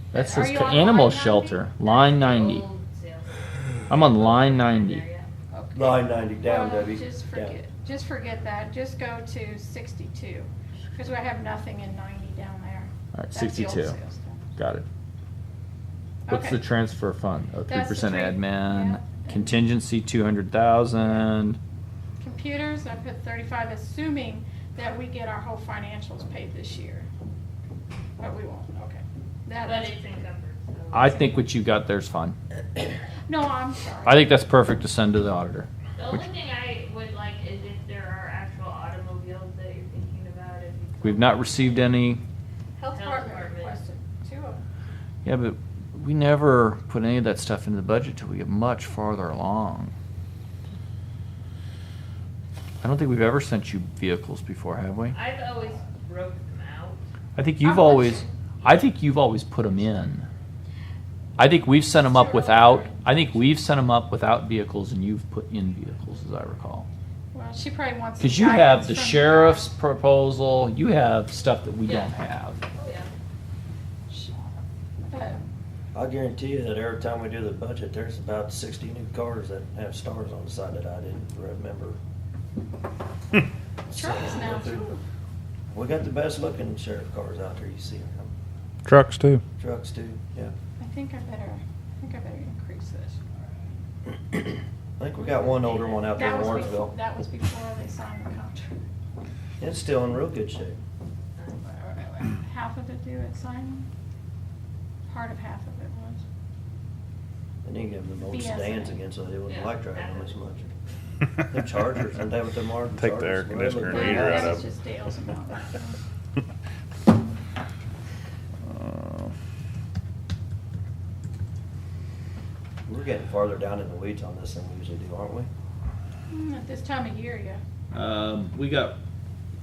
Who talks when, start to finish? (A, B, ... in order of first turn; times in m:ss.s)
0:00.1-0:02.6 A
0:00.1-0:01.8 B
0:01.8-0:05.3 C
0:03.9-0:05.0 A
0:05.5-0:14.5 B
0:05.7-0:07.6 D
0:13.1-0:14.0 A
0:14.6-0:14.8 A
0:16.3-0:16.6 B
0:16.3-0:21.6 A
0:17.7-0:19.6 B
0:21.0-0:21.3 B
0:22.2-0:27.1 B
0:28.2-0:30.0 B
0:29.6-0:31.1 C
0:30.9-0:32.4 A
0:33.3-0:34.4 B
0:34.0-0:36.2 A
0:35.9-0:42.0 C
0:41.0-0:42.2 A
0:42.8-0:44.6 B
0:42.9-0:43.8 C
0:45.2-0:49.9 A
0:52.8-0:55.2 A
0:55.1-0:57.0 C
0:57.4-1:00.3 A
0:57.6-0:58.3 B
1:01.4-1:06.8 A
1:02.0-1:03.0 B
1:07.3-1:09.7 B
1:08.2-1:12.6 A
1:11.8-1:12.1 C
1:12.7-1:13.1 C
1:15.1-1:15.4 B
1:15.9-1:22.0 D
1:23.9-1:24.9 D
1:23.9-1:25.0 B
1:25.7-1:28.3 D
1:28.8-1:29.4 E
1:29.6-1:30.5 D
1:30.8-1:33.2 B
1:35.0-1:36.9 D
1:35.3-1:36.7 C
1:36.1-1:38.8 B
1:39.6-1:40.8 D
1:41.4-1:41.6 C
1:41.6-1:43.9 B
1:45.0-1:46.2 B
1:47.6-1:50.7 D
1:48.2-1:49.0 B
1:49.4-1:50.4 C
1:51.5-1:54.6 D
1:52.9-1:54.7 E
1:53.8-1:56.0 B
1:58.7-1:59.3 E
2:02.8-2:05.5 D
2:06.3-2:07.6 B
2:07.9-2:09.0 A